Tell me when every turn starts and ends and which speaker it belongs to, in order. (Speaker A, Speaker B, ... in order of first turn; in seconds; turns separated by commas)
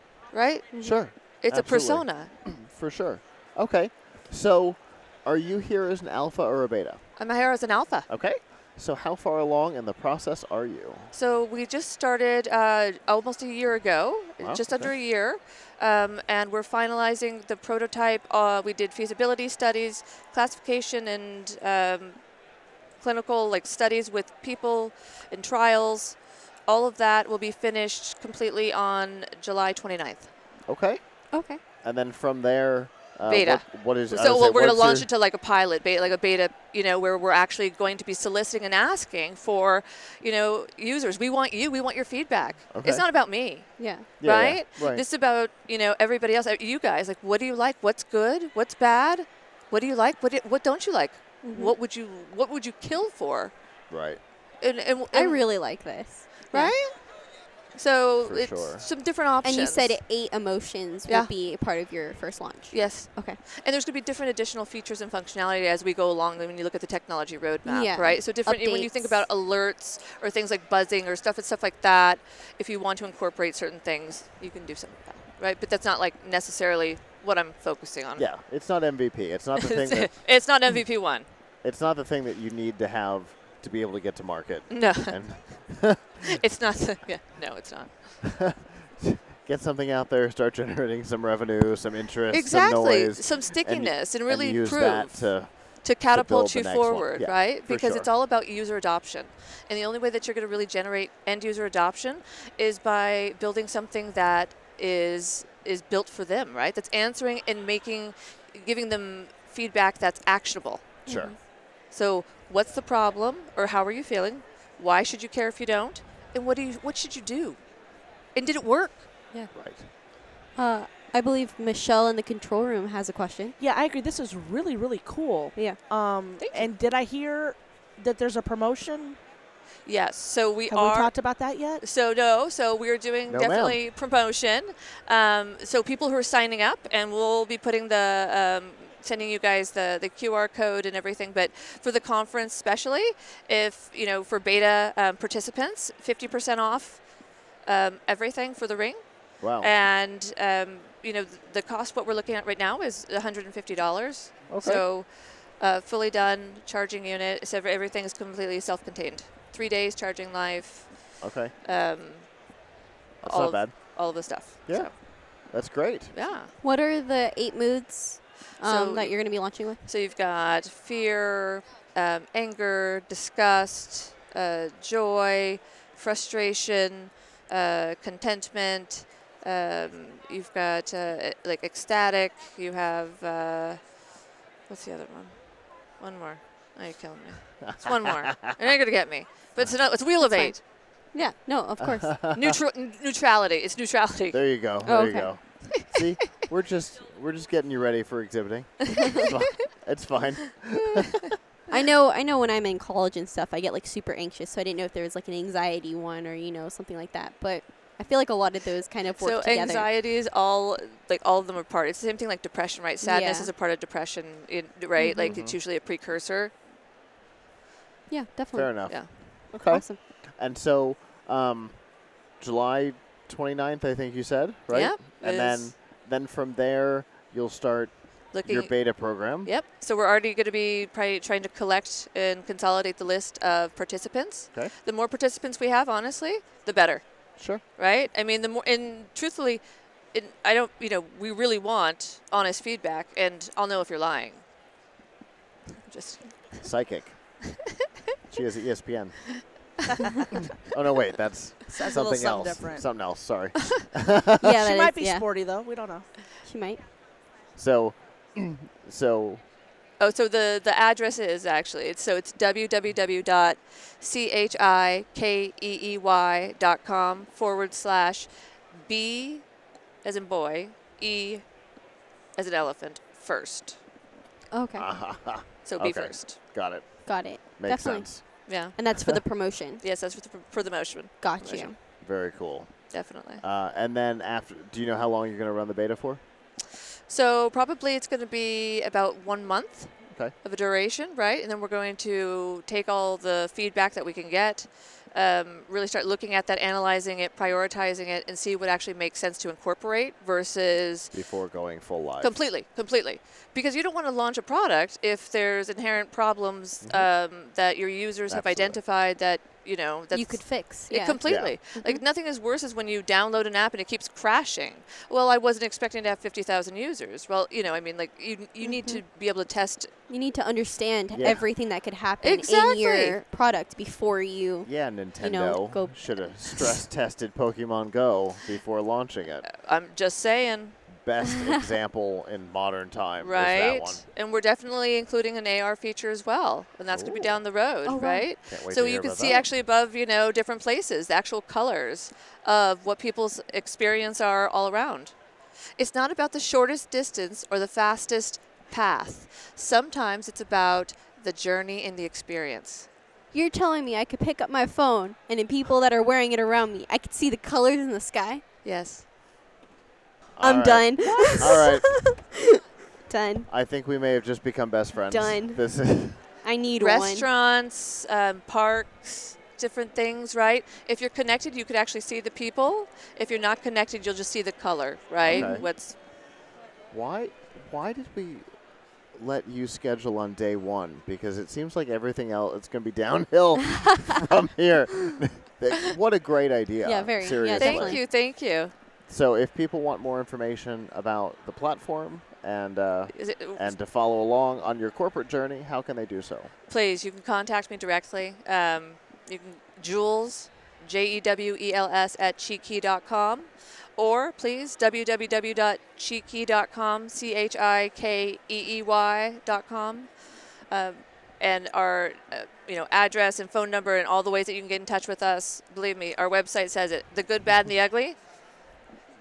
Speaker A: 0.3-0.7, Speaker B: 0.8-7.0, Speaker A: 1.4-2.3, Speaker A: 7.2-8.1, Speaker B: 8.1-11.1, Speaker A: 11.1-22.2, Speaker B: 14.4-14.9, Speaker A: 23.0-26.1, Speaker A: 26.7-30.3, Speaker B: 30.7-31.0, Speaker C: 31.3-31.6, Speaker B: 31.8-35.1, Speaker A: 33.2-43.7, Speaker B: 42.7-43.0, Speaker C: 43.8-44.1, Speaker B: 44.2-45.0, Speaker A: 44.2-53.5, Speaker C: 51.4-51.8, Speaker B: 53.9-54.2, Speaker A: 54.6-55.4, Speaker C: 55.1-56.8, Speaker A: 56.5-57.0, Speaker A: 57.8-60.0, Speaker B: 58.2-58.9, Speaker C: 59.4-63.4, Speaker A: 62.7-78.3, Speaker C: 67.6-69.2, Speaker B: 78.2-80.2, Speaker A: 79.6-81.3, Speaker B: 81.6-86.2, Speaker A: 84.7-85.2, Speaker A: 86.3-87.9, Speaker B: 88.2-98.1, Speaker A: 92.3-111.0, Speaker C: 111.0-111.3, Speaker B: 111.1-111.3, Speaker A: 111.9-117.6, Speaker A: 118.3-119.5, Speaker B: 119.5-119.9, Speaker C: 120.5-123.6, Speaker D: 123.6-129.2, Speaker A: 126.4-126.7, Speaker A: 129.9-131.1, Speaker D: 130.7-131.8, Speaker A: 131.8-147.0, Speaker B: 133.3-133.8, Speaker A: 147.7-149.0, Speaker B: 149.4-149.7, Speaker A: 149.6-155.1, Speaker B: 154.5-154.8, Speaker A: 155.6-160.9, Speaker B: 161.2-161.5, Speaker A: 161.6-162.2, Speaker B: 163.2-163.9, Speaker A: 163.2-164.9, Speaker B: 164.7-166.1, Speaker A: 166.1-166.5, Speaker C: 166.6-169.8, Speaker A: 168.6-169.2, Speaker A: 169.8-183.8, Speaker A: 184.7-185.3, Speaker A: 186.0-190.6, Speaker B: 187.7-188.6, Speaker C: 190.2-190.6, Speaker C: 191.1-192.1, Speaker B: 191.8-192.6, Speaker A: 192.3-194.4, Speaker B: 194.3-201.2, Speaker C: 194.8-195.3, Speaker C: 201.7-209.9, Speaker A: 209.2-216.5, Speaker C: 213.0-213.5, Speaker C: 215.0-215.4, Speaker B: 215.2-215.6, Speaker C: 218.1-219.1, Speaker B: 218.5-221.8, Speaker C: 219.7-220.0, Speaker B: 222.4-229.5, Speaker A: 224.7-225.7, Speaker A: 228.3-237.0, Speaker A: 237.8-239.6, Speaker A: 240.1-244.4, Speaker A: 245.9-246.5, Speaker B: 246.6-247.2, Speaker B: 248.3-249.2, Speaker B: 250.5-254.6, Speaker D: 251.7-252.9, Speaker C: 254.4-255.2, Speaker D: 254.4-256.1, Speaker C: 256.4-256.8, Speaker B: 257.6-259.4, Speaker A: 260.0-268.3, Speaker A: 268.8-269.4, Speaker A: 270.0-271.4, Speaker A: 272.4-273.8, Speaker C: 274.5-274.9, Speaker B: 274.8-278.2, Speaker A: 275.6-276.4, Speaker C: 277.1-279.8, Speaker A: 278.5-279.2, Speaker A: 279.8-281.7, Speaker C: 281.2-281.8, Speaker B: 282.0-282.8, Speaker A: 282.9-283.4, Speaker B: 283.4-286.2, Speaker A: 287.1-301.1, Speaker B: 301.1-302.4, Speaker A: 302.2-319.9, Speaker B: 306.8-307.1, Speaker B: 308.3-308.8, Speaker C: 310.1-311.2, Speaker B: 311.2-311.5, Speaker C: 311.8-312.0, Speaker C: 318.6-319.0, Speaker C: 320.1-326.8, Speaker B: 321.1-321.4, Speaker A: 322.2-323.2, Speaker B: 324.6-329.5, Speaker A: 329.5-330.8, Speaker B: 330.9-334.0, Speaker A: 333.2-345.1, Speaker B: 336.9-337.4, Speaker C: 337.9-338.3, Speaker B: 338.5-339.5, Speaker A: 345.8-352.9, Speaker C: 353.3-358.4, Speaker A: 358.6-359.0, Speaker B: 360.4-362.1, Speaker C: 360.4-362.3, Speaker C: 363.1-363.5, Speaker B: 363.5-366.2, Speaker C: 365.0-365.6, Speaker C: 366.4-367.3, Speaker A: 366.8-376.0, Speaker B: 375.2-375.7, Speaker C: 375.3-375.7, Speaker B: 376.9-378.4, Speaker B: 379.1-388.0, Speaker C: 386.8-388.0, Speaker A: 387.5-388.7, Speaker B: 389.1-396.5, Speaker A: 393.1-393.7, Speaker A: 396.7-410.1, Speaker A: 410.7-418.1